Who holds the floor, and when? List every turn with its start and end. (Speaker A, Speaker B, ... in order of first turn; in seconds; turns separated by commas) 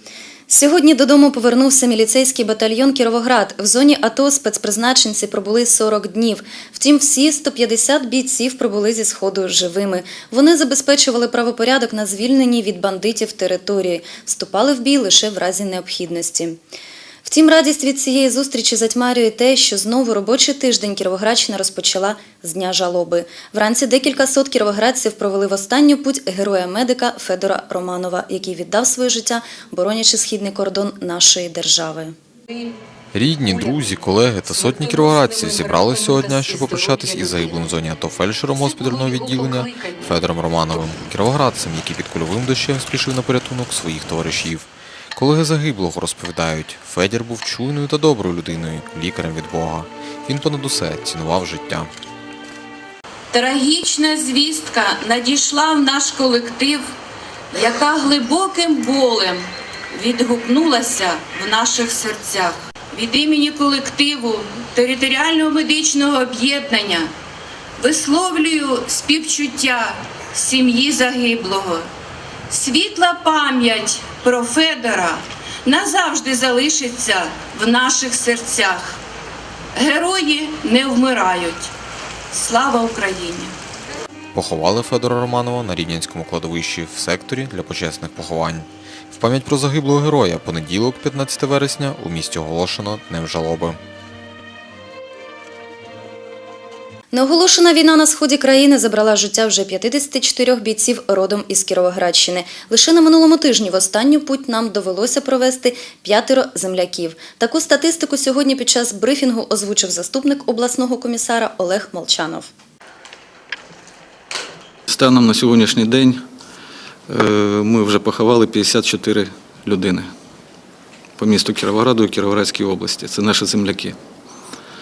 Speaker A: 0.5-16.6, Speaker A: 17.2-32.1, Speaker B: 33.1-51.9, Speaker C: 53.3-56.9, Speaker C: 57.5-67.1, Speaker C: 67.8-71.9, Speaker C: 72.5-79.0, Speaker C: 79.8-81.7, Speaker C: 82.3-83.5, Speaker B: 84.3-93.8, Speaker A: 97.1-112.5, Speaker D: 114.9-116.2, Speaker D: 117.1-120.1, Speaker D: 121.2-124.0